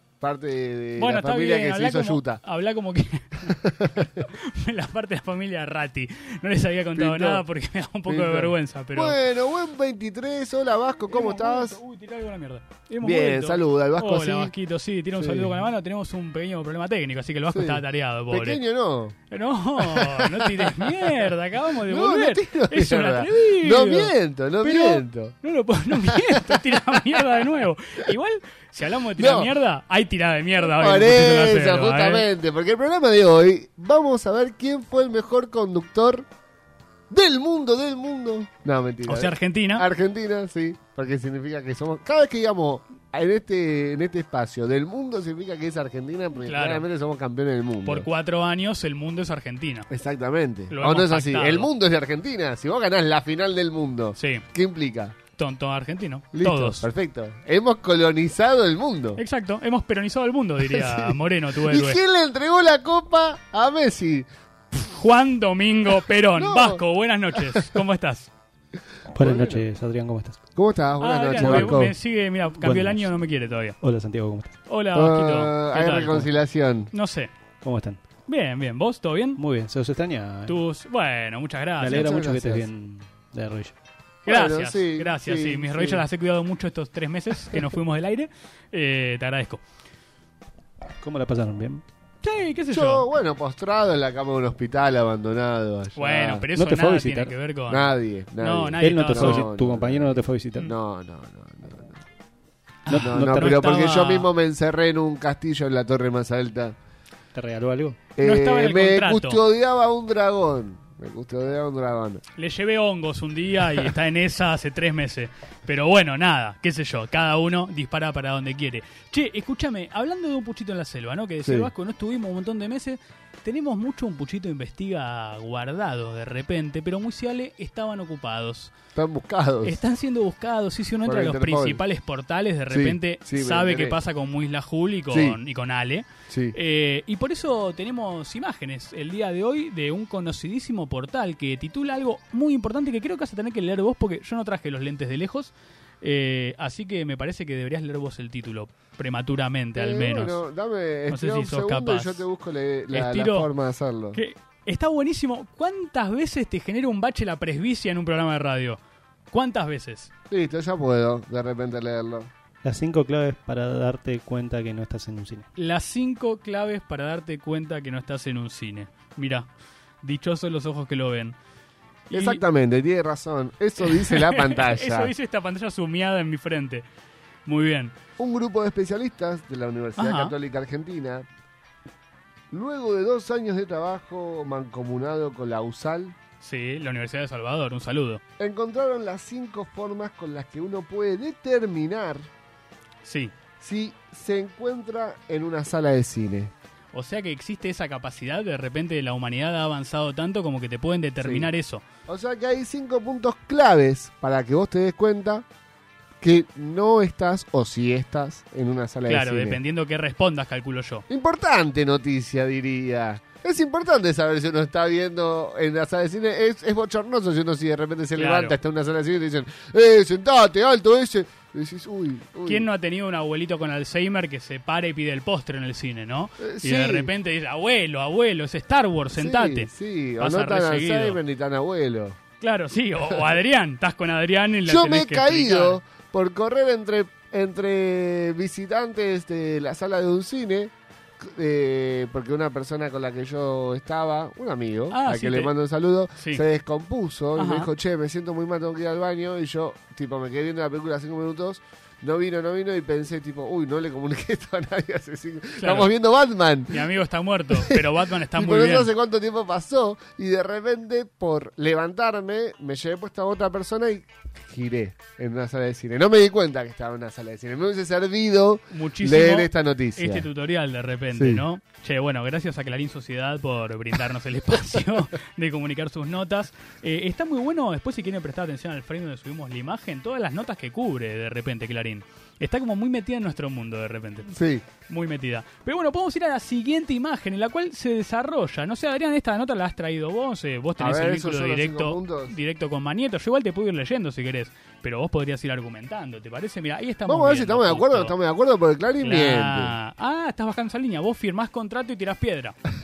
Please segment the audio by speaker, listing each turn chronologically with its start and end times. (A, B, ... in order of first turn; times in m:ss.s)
0:00.2-0:02.4 A
0:01.0-0:09.2 B
0:03.5-0:04.2 A
0:07.0-0:07.4 A
0:08.1-0:11.8 A
0:11.1-0:18.6 B
0:13.0-0:14.5 A
0:15.2-0:15.6 A
0:17.5-0:19.1 A
0:19.3-0:32.2 B
0:19.8-0:21.3 A
0:21.8-0:25.3 A
0:25.9-0:27.2 A
0:29.2-0:29.5 A
0:30.6-0:36.2 A
0:37.1-0:48.1 A
0:39.1-0:39.8 B
0:46.4-0:46.9 B
0:47.8-0:49.9 B
0:49.9-0:55.2 A
0:50.7-0:51.7 B
0:54.1-0:54.4 B
0:55.4-0:56.9 B
0:56.3-0:59.2 A
0:59.2-1:02.0 B
1:00.6-1:04.3 A
1:04.8-1:08.3 B
1:06.3-1:06.8 A
1:07.4-1:07.7 A
1:09.1-1:10.4 C
1:09.2-1:09.6 A
1:10.5-1:11.9 A
1:11.0-1:13.8 B
1:11.4-1:11.8 C
1:12.6-1:13.1 C
1:13.8-1:14.5 C
1:14.7-1:16.3 B
1:14.9-1:16.9 A
1:16.9-1:17.3 B
1:17.6-1:18.0 C
1:18.3-1:19.4 B
1:19.4-1:20.6 C
1:20.4-1:22.0 B
1:21.8-1:23.7 C
1:21.9-1:22.7 A
1:24.2-1:26.0 A
1:24.2-1:29.6 B
1:31.0-1:31.8 C
1:32.2-1:33.1 B
1:32.7-1:36.4 A
1:35.9-1:39.5 B
1:36.6-1:37.3 C
1:37.7-1:42.0 A
1:38.8-1:40.7 C
1:42.8-1:44.3 B
1:42.9-1:43.6 C
1:42.9-1:46.8 A
1:47.3-1:48.0 C
1:48.2-1:52.2 A
1:48.2-1:49.4 B
1:52.4-2:08.7 B
2:01.4-2:01.7 A
2:08.9-2:09.8 A
2:09.6-2:30.4 B
2:11.0-2:11.8 A
2:12.7-2:14.0 A
2:15.1-2:15.4 A
2:16.3-2:16.6 A
2:29.8-2:34.2 A
2:31.1-2:32.2 B
2:32.9-2:33.5 B
2:34.1-2:38.8 B
2:39.3-2:40.1 B
2:40.3-2:42.3 A
2:42.6-2:45.5 C
2:45.6-2:49.5 B
2:50.0-2:51.3 B
2:52.1-2:52.4 B
2:52.1-2:55.1 A
2:53.8-2:56.8 B
2:57.4-2:57.9 B
2:58.2-3:01.3 A
3:00.0-3:00.3 B
3:02.5-3:06.2 A
3:06.4-3:08.2 B
3:08.4-3:12.3 A
3:13.0-3:13.3 B
3:13.6-3:16.5 A
3:16.9-3:21.8 B
3:21.2-3:21.5 A
3:22.1-3:25.4 A
3:26.2-3:29.6 A
3:29.1-3:31.0 B
3:31.1-3:42.7 A
3:38.1-3:38.6 B
3:42.4-3:51.2 B
3:46.4-3:47.1 A
3:49.1-3:52.2 A
3:52.4-3:55.8 B
3:54.7-4:16.9 A
4:04.9-4:05.5 B
4:06.2-4:06.4 B
4:07.4-4:07.7 B
4:15.6-4:15.9 B
4:16.7-4:18.9 B
4:17.5-4:30.3 A
4:28.7-4:44.3 B
4:31.1-4:31.4 A
4:44.3-4:44.6 A
4:44.9-4:58.1 B
4:50.8-4:52.3 A
4:57.0-4:59.7 A
4:59.0-5:02.6 B